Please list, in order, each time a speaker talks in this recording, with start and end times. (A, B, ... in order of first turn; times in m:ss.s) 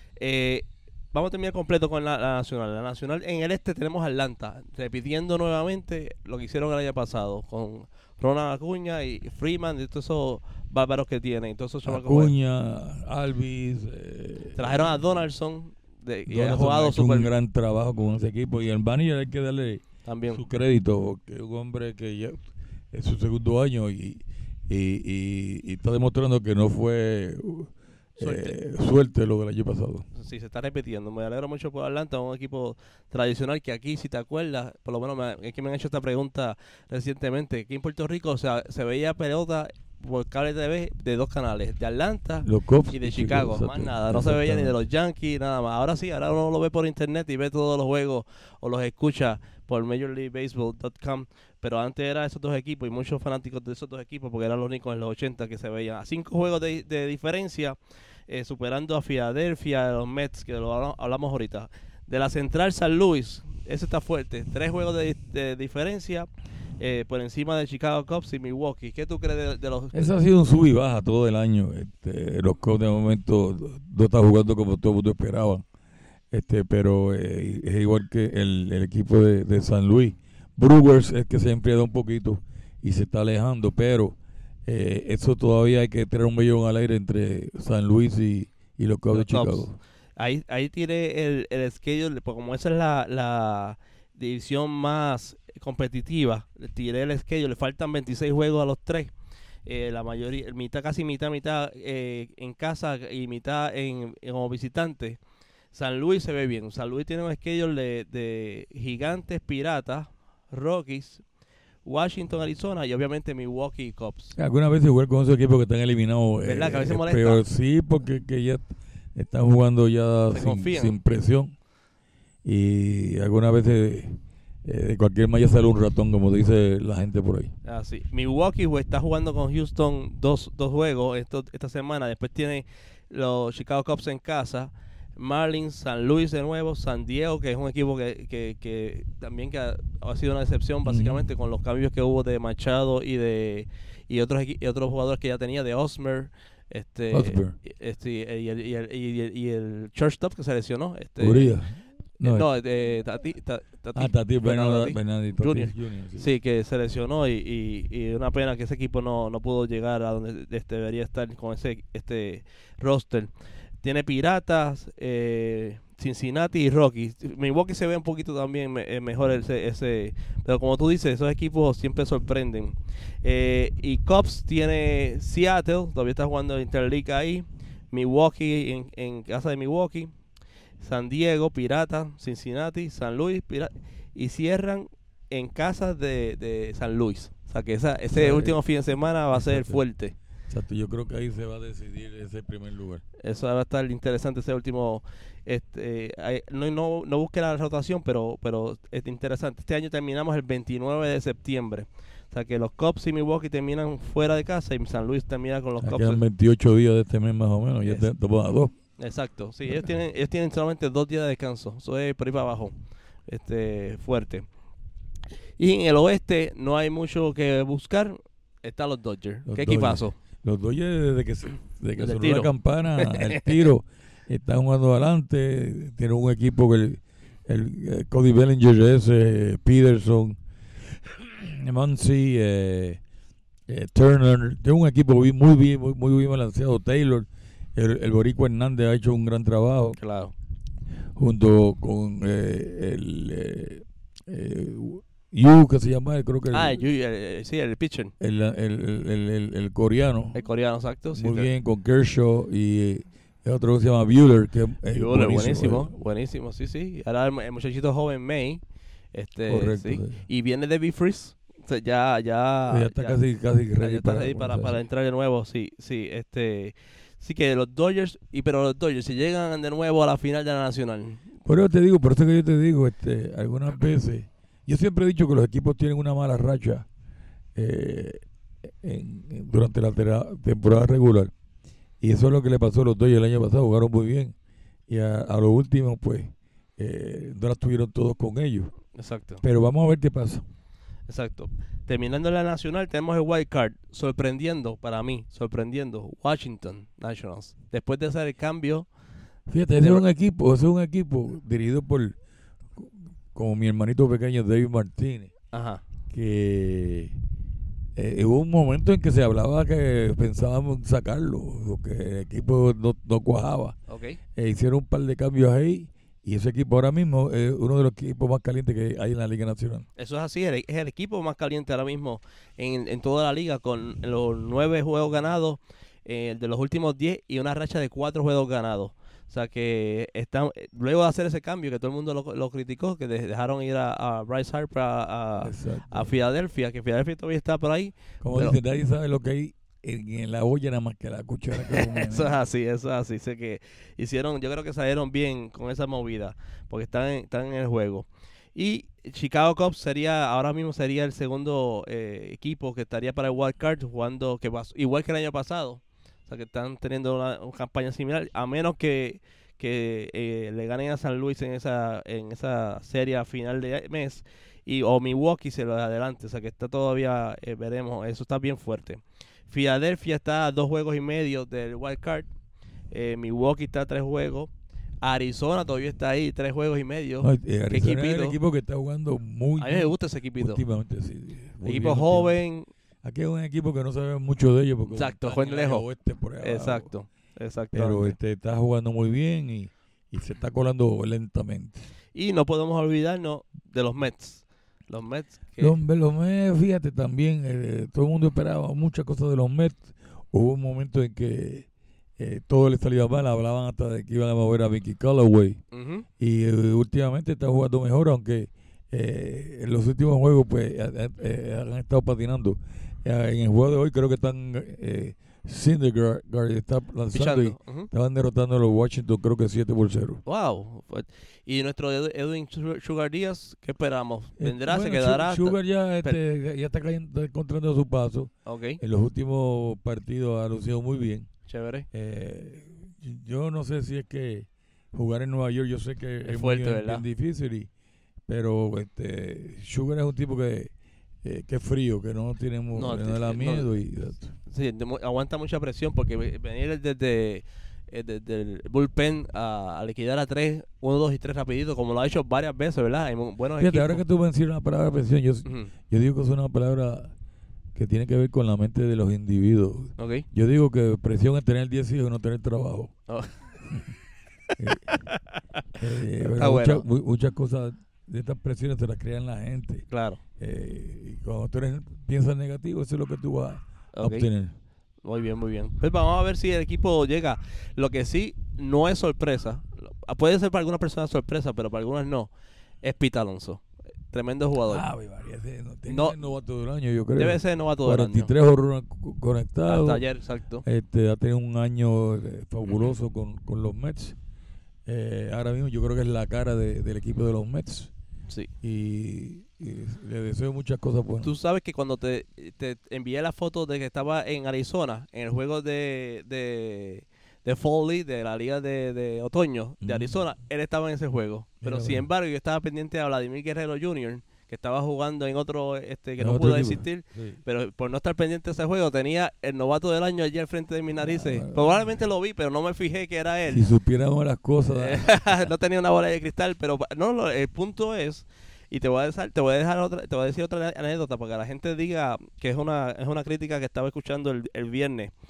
0:00.2-0:12.3 A
0:11.8-0:15.1 B
0:14.6-0:17.3 A
0:16.3-0:30.0 B
0:20.0-0:20.4 A
0:28.2-0:28.5 A
0:30.1-0:57.8 A
0:42.4-0:44.7 B
0:58.3-1:10.1 A
1:09.9-1:15.6 B
1:16.3-1:24.2 B
1:24.7-1:29.8 B
1:29.1-1:39.1 A
1:39.6-1:45.2 A
1:45.7-1:51.2 A
1:51.8-1:54.4 A
1:54.4-2:01.5 B
1:56.4-1:57.4 A
2:00.3-2:01.0 A
2:02.4-2:07.5 B
2:07.6-2:31.6 A
2:20.8-2:21.3 B
2:27.1-2:27.5 B
2:31.2-2:32.5 B
2:32.2-2:43.3 A
2:33.9-2:36.3 B
2:43.8-3:00.1 A
3:00.8-3:10.1 A
3:08.1-3:08.6 B
3:09.3-3:09.8 B
3:10.5-3:13.0 B
3:13.2-3:26.2 A
3:25.8-3:28.7 B
3:27.8-3:28.1 A
3:29.0-3:32.7 A
3:33.3-3:34.5 A
3:35.6-3:40.1 A
3:39.4-3:50.4 B
3:42.0-3:43.5 A
3:50.9-3:53.0 B
3:53.7-4:00.0 B
4:00.0-4:00.3 A
4:01.2-4:06.8 B
4:06.5-4:08.1 A
4:08.2-4:10.4 B
4:10.3-4:11.5 A
4:11.1-4:15.9 B
4:14.9-4:18.6 A
4:19.1-4:23.2 A
4:19.5-4:20.2 B
4:22.7-4:24.8 B
4:23.8-4:31.2 A
4:31.4-4:36.8 B
4:37.6-4:41.3 B
4:42.0-4:44.3 B
4:44.9-4:48.7 B
4:48.9-4:49.4 A
4:49.4-4:50.4 B
4:51.1-4:58.9 A
4:59.5-5:02.2 B
4:59.8-5:00.0 A
5:02.7-5:05.3 B
5:05.5-5:05.8 A
5:06.1-5:07.2 B
5:08.0-5:13.8 B
5:13.9-5:14.2 A
5:14.4-5:19.8 B
5:20.0-5:38.6 A
5:35.4-5:36.1 B
5:38.2-5:42.3 B
5:41.6-6:12.3 A
6:12.9-6:14.5 A
6:15.0-6:18.4 A
6:17.2-6:22.4 B
6:19.6-6:20.6 A
6:21.6-6:22.7 A
6:23.0-6:26.9 B
6:24.9-6:25.8 A
6:26.4-6:28.2 A
6:27.7-6:31.9 B
6:32.1-6:35.8 A
6:35.6-6:41.7 B
6:42.2-6:45.6 B
6:45.7-6:46.0 A
6:46.2-7:00.2 B
6:57.1-6:57.9 A
7:00.2-7:06.2 A
7:04.4-7:11.3 B
7:08.4-7:08.8 A
7:11.5-7:11.9 A
7:11.9-7:17.7 B
7:16.2-7:17.0 A
7:18.3-7:20.7 B
7:21.2-7:24.3 B
7:22.7-7:23.8 A
7:24.4-7:34.0 A
7:33.6-7:37.1 B
7:35.4-7:35.7 A
7:37.7-7:42.9 B
7:40.0-7:40.3 A
7:43.1-7:43.8 A
7:44.5-7:45.6 A
7:44.6-7:45.0 B
7:45.8-7:49.9 B
7:46.2-7:46.8 A
7:49.9-7:50.2 A
7:50.4-7:54.5 B
7:53.9-7:54.3 A
7:55.0-8:02.3 A
8:02.8-8:04.8 A
8:04.6-8:10.0 B
8:05.9-8:06.2 A
8:07.2-8:08.3 A
8:09.7-8:10.6 A
8:10.6-8:14.2 B
8:12.7-8:12.9 A
8:14.9-8:17.9 B
8:18.6-8:21.3 B
8:21.2-8:43.7 A
8:29.8-8:30.1 B
8:31.6-8:32.1 B
8:36.2-8:37.4 B
8:41.0-8:41.9 B
8:43.5-8:45.5 B
8:44.7-8:55.1 A